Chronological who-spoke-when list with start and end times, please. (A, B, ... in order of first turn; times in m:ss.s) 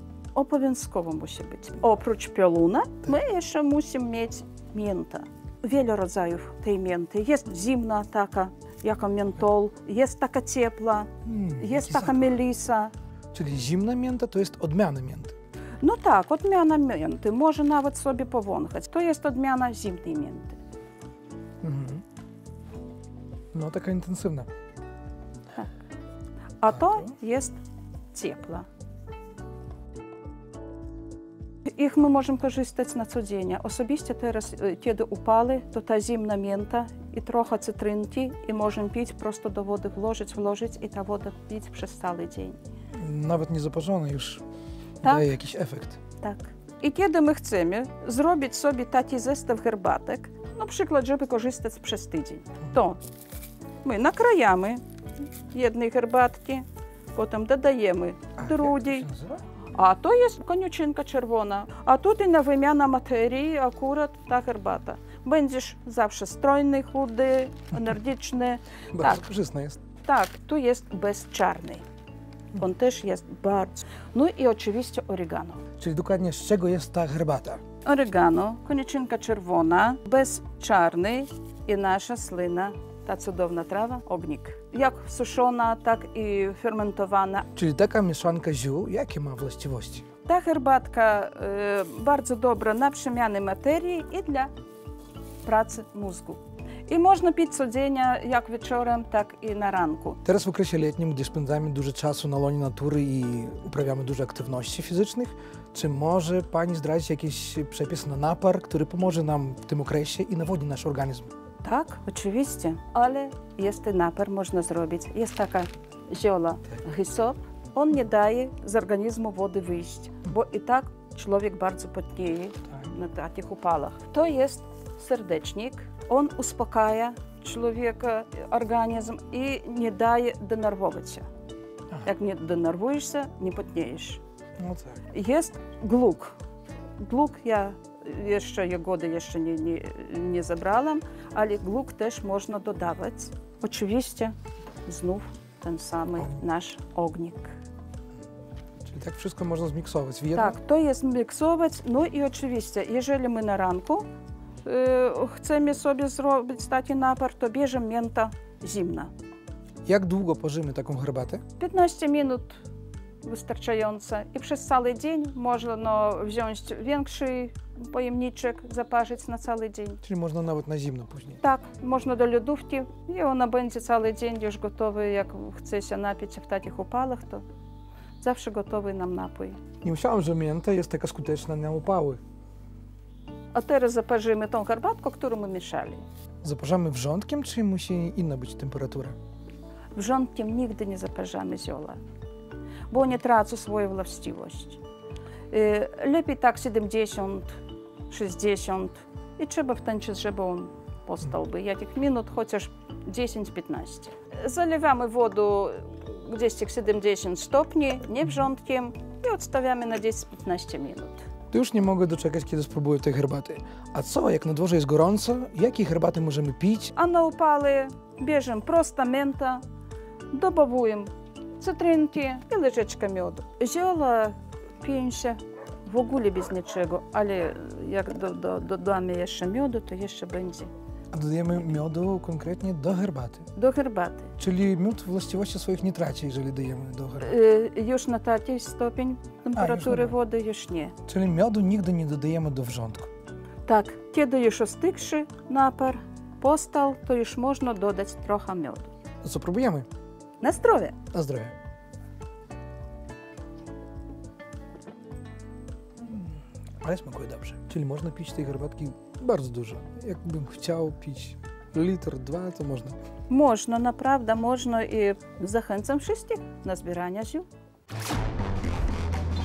0:00.4-0:12.9 A
0:11.2-0:12.2 B
0:13.3-0:15.4 B
0:15.8-0:20.6 A
0:21.6-0:22.0 B
0:23.5-0:24.5 B
0:26.6-0:27.6 A
0:26.8-0:27.1 B
0:28.1-0:28.7 A
0:31.7-0:42.6 A
0:43.0-0:44.4 B
0:45.0-0:46.0 B
0:46.2-0:53.0 A
0:53.8-0:54.8 A
0:55.5-0:59.1 A
0:58.4-0:59.4 B
0:59.8-1:09.2 A
1:08.9-1:09.8 B
1:10.0-1:11.8 A
1:12.6-1:15.6 A
1:15.8-1:17.6 B
1:17.8-1:27.5 A
1:27.6-1:30.1 B
1:30.2-1:34.5 A
1:35.4-1:40.2 A
1:40.2-1:51.3 B
1:51.6-2:11.3 A
2:12.0-2:14.2 A
2:14.6-2:15.0 B
2:15.1-2:16.4 A
2:17.0-2:24.4 A
2:24.9-2:27.6 A
2:28.9-2:30.6 B
2:30.3-2:34.1 A
2:34.6-2:39.1 A
2:39.9-2:41.4 B
2:41.6-2:42.6 A
2:43.2-2:50.0 A
2:50.0-2:51.4 B
2:51.4-2:57.4 A
2:58.2-2:59.6 A
2:59.8-3:02.2 B
3:03.5-3:06.0 A
3:06.4-3:09.2 B
3:10.0-3:12.0 A
3:12.9-3:14.8 A
3:15.5-3:17.6 A
3:18.1-3:31.3 A
3:31.5-3:36.9 B
3:37.0-3:39.6 A
3:40.3-3:50.7 A
3:51.1-3:53.5 B
3:53.6-3:54.3 A
3:54.4-3:57.3 B
3:57.2-4:00.9 A
3:59.6-4:00.2 B
4:01.1-4:03.1 B
4:03.7-4:08.9 A
4:09.2-4:09.9 B
4:10.4-4:11.0 A
4:11.1-4:11.5 B
4:16.0-4:23.0 B
4:23.3-4:27.5 A